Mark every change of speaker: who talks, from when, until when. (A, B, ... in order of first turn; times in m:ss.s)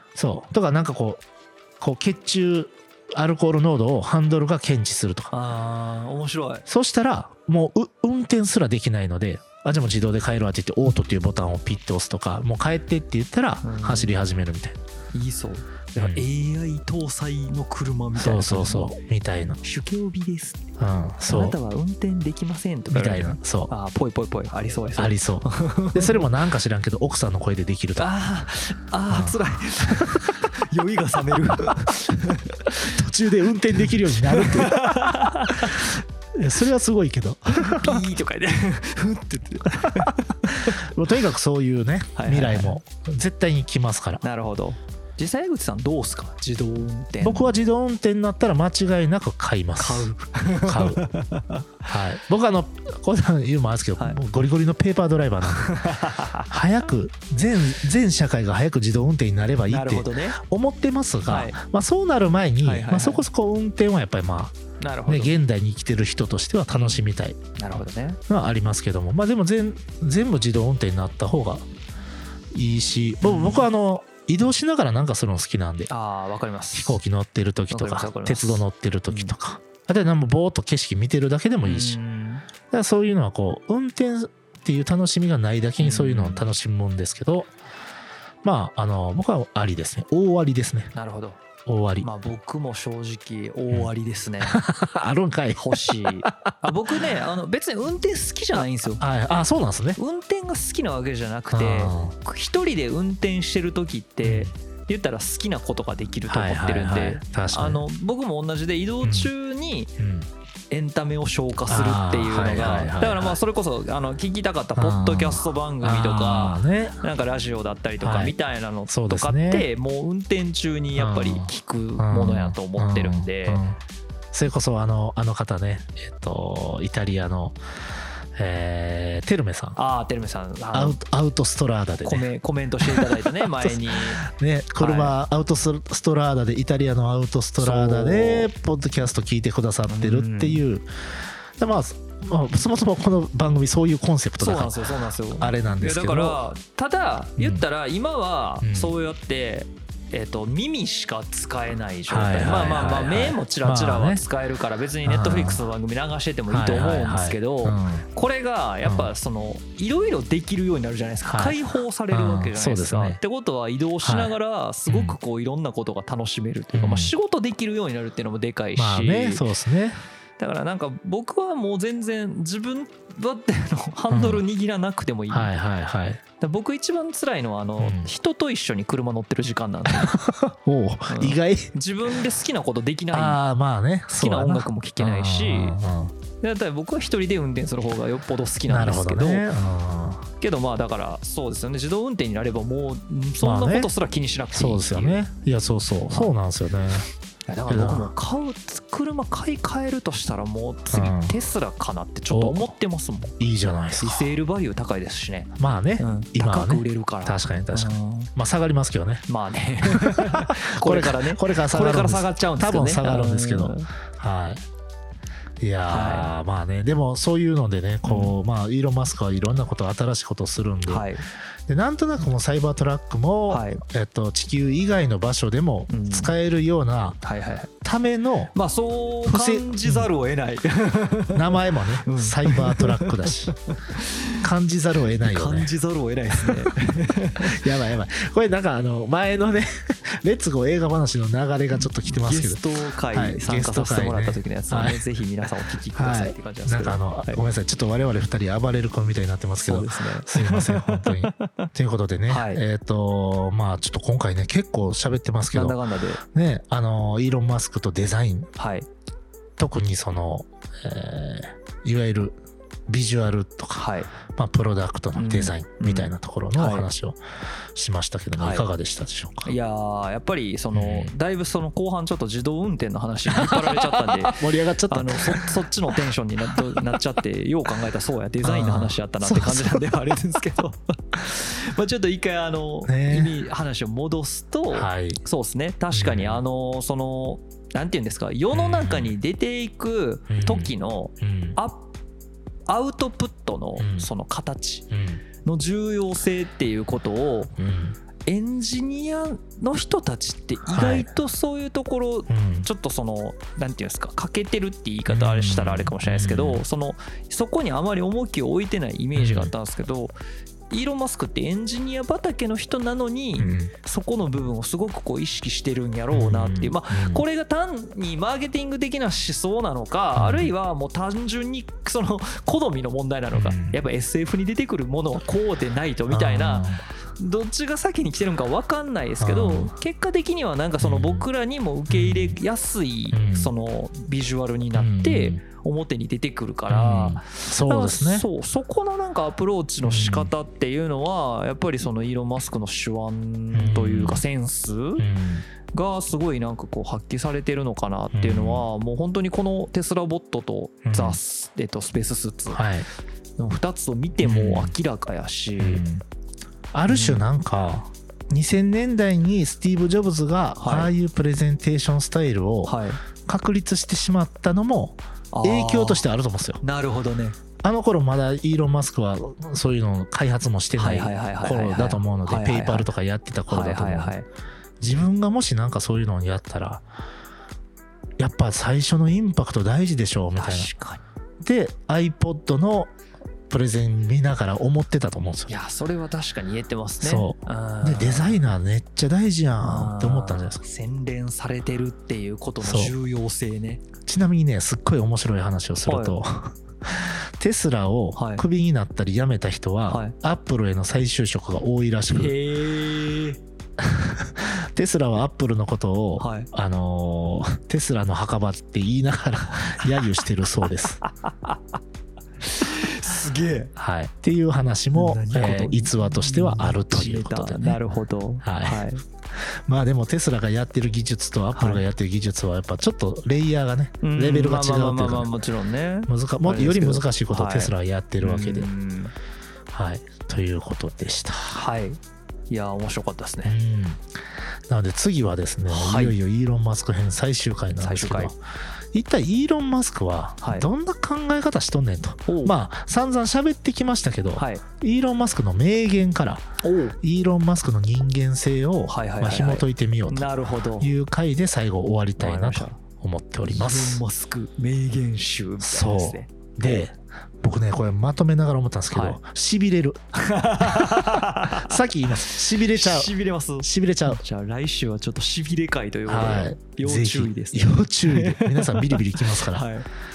0:00.1-0:01.2 A
0:01.8-0:05.3 A
0:05.3-0:06.6 B
0:06.7-0:14.8 A
0:13.6-0:14.1 B
0:15.1-0:18.9 B
0:16.0-0:16.3 A
0:18.2-0:19.6 A
0:19.6-0:20.7 B
0:20.8-0:21.6 A
0:21.3-0:26.3 B
0:22.9-0:23.7 A
0:25.0-0:28.1 A
0:28.0-0:33.0 B
0:29.1-0:30.4 A
0:32.8-0:38.1 A
0:33.9-0:36.0 B
0:37.5-0:40.8 B
0:39.7-0:44.2 A
0:42.1-0:42.8 B
0:44.2-0:47.5 B
0:47.2-0:50.1 A
0:49.8-0:51.7 B
0:50.6-0:51.1 A
0:51.8-0:56.0 A
0:55.5-0:56.5 B
0:56.5-1:07.4 A
0:59.7-1:00.4 B
1:01.3-1:01.6 B
1:02.6-1:03.2 B
1:04.8-1:05.4 B
1:06.7-1:07.0 B
1:07.6-1:08.2 B
1:08.3-1:11.7 A
1:12.5-1:15.9 A
1:13.2-1:13.7 B
1:15.9-1:17.0 B
1:16.7-1:22.0 A
1:17.7-1:19.3 B
1:21.6-1:22.4 B
1:22.7-1:27.5 A
1:25.8-1:26.5 B
1:28.4-1:30.9 A
1:30.9-1:31.4 B
1:31.7-1:32.1 A
1:32.0-1:34.6 B
1:34.4-1:37.0 A
1:35.6-1:39.0 B
1:39.0-1:40.0 A
1:40.0-1:49.9 B
1:41.5-1:42.1 A
1:44.2-1:44.5 A
1:46.3-1:47.8 A
1:49.0-1:49.3 A
1:50.0-1:50.3 A
1:50.7-2:03.6 B
1:51.7-1:53.4 A
1:54.8-1:57.0 A
1:58.0-1:58.4 A
1:58.9-1:59.7 A
2:01.0-2:03.8 A
2:04.3-2:07.6 A
2:08.4-2:09.8 A
2:09.8-2:11.0 B
2:10.7-2:12.3 A
2:12.0-2:14.3 B
2:12.9-2:20.9 A
2:14.8-2:15.1 B
2:17.6-2:18.5 B
2:19.9-2:20.6 B
2:21.6-2:26.4 A
2:24.4-2:49.4 B
2:27.4-2:27.6 A
2:28.6-2:28.9 A
2:32.1-2:34.2 A
2:35.0-2:35.6 A
2:36.5-2:38.1 A
2:38.8-2:39.1 A
2:41.3-2:41.6 A
2:42.1-2:43.2 A
2:44.0-2:44.4 A
2:44.9-2:45.2 A
2:46.7-2:47.1 A
2:48.8-2:50.0 A
2:50.4-2:55.5 B
2:54.1-2:54.4 A
2:55.3-2:56.2 A
2:56.4-3:00.2 B
2:57.8-2:58.1 A
2:59.9-3:01.7 A
3:01.1-3:03.4 B
3:03.1-3:06.2 A
3:04.1-3:05.8 B
3:06.4-3:09.5 B
3:08.7-3:10.3 A
3:10.4-3:15.2 B
3:13.4-3:13.9 A
3:14.5-3:17.1 A
3:17.5-3:23.4 B
3:17.7-3:18.1 A
3:20.9-3:21.4 A
3:22.3-3:22.7 A
3:23.4-3:24.3 A
3:24.0-3:28.3 B
3:25.6-3:29.2 A
3:29.3-3:33.9 B
3:29.8-3:34.6 A
3:35.6-3:41.1 A
3:35.9-3:36.3 B
3:38.0-3:38.4 B
3:40.9-3:41.2 B
3:41.7-3:47.2 A
3:43.5-3:43.8 B
3:45.9-3:46.3 B
3:47.2-3:47.7 B
3:47.8-3:48.5 A
3:48.5-3:54.4 B
3:49.3-3:50.1 A
3:51.3-3:53.6 A
3:54.4-3:55.7 A
3:55.2-3:57.6 B
3:56.3-4:05.0 A
4:01.7-4:07.4 B
4:06.0-4:18.5 A
4:09.6-4:11.7 B
4:12.3-4:12.6 B
4:15.5-4:16.2 B
4:18.6-4:18.9 B
4:19.6-4:22.4 A
4:22.9-4:27.2 A
4:23.8-4:24.1 B
4:25.1-4:26.9 B
4:27.7-4:29.5 A
4:28.4-4:28.7 B
4:29.4-4:51.9 B
4:30.7-4:31.1 A
4:33.4-4:35.5 A
4:38.4-4:39.8 A
4:42.9-4:43.3 A
4:44.7-4:45.2 A
4:45.9-4:46.4 A
4:48.5-4:49.1 A
4:50.3-4:51.6 A
4:52.7-4:54.9 B
4:53.8-4:54.1 A
4:54.9-4:55.2 A
4:55.4-4:57.5 B
4:57.6-4:58.0 A
4:58.3-5:10.1 B
5:00.7-5:01.1 A
5:02.3-5:02.7 A
5:05.1-5:06.6 A
5:09.2-5:09.5 A
5:10.7-5:45.0 B
5:13.4-5:13.7 A
5:16.1-5:17.2 A
5:20.2-5:20.5 A
5:23.3-5:23.8 A
5:26.1-5:26.8 A
5:29.2-5:29.7 A
5:30.8-5:31.3 A
5:31.9-5:32.4 A
5:33.1-5:33.5 A
5:34.7-5:35.4 A
5:36.7-5:38.3 A
5:39.8-5:40.3 A
5:43.5-5:44.2 A
5:45.0-5:45.4 A
5:45.7-5:52.7 B
5:48.1-5:48.7 A
5:50.8-5:51.2 A
5:52.5-5:52.9 A
5:53.4-5:55.8 B
5:54.2-5:54.7 A
5:55.6-5:56.0 A
5:56.7-6:06.6 A
5:56.9-5:57.2 B
6:00.6-6:00.9 B
6:02.7-6:03.0 B
6:05.3-6:06.0 B
6:06.6-6:07.4 B
6:07.6-6:14.2 A
6:10.8-6:12.9 B
6:13.5-6:14.3 B
6:14.8-6:16.8 A
6:18.2-6:20.7 A
6:20.4-6:21.0 B
6:21.4-6:22.9 A
6:23.5-6:25.5 A
6:25.5-6:28.4 B
6:27.0-6:30.6 A
6:29.6-6:33.8 B
6:32.6-6:32.9 A
6:34.0-6:42.3 A
6:35.9-6:36.2 B
6:38.1-6:38.4 B
6:39.9-6:40.1 B
6:42.1-6:43.4 B
6:43.8-6:51.0 A
6:46.2-6:46.5 B
6:51.0-6:51.6 B
6:52.4-6:53.7 B
6:53.8-6:57.8 A
6:54.9-6:59.0 B
6:58.4-7:05.3 A
7:01.5-7:01.8 B
7:04.0-7:09.1 B
7:06.1-7:08.7 A
7:09.7-7:11.6 A
7:11.5-7:13.6 B
7:13.4-7:14.1 A
7:14.7-7:18.4 A
7:15.7-7:16.1 B
7:17.8-7:18.3 B
7:18.9-7:34.0 A
7:20.4-7:20.7 B
7:22.3-7:22.5 B
7:24.4-7:24.6 B
7:26.6-7:27.0 B
7:28.9-7:30.9 B
7:32.2-7:32.8 B
7:33.4-7:36.8 B
7:35.6-7:44.2 A
7:38.9-7:39.2 B
7:40.2-7:49.9 B
7:46.1-7:49.7 A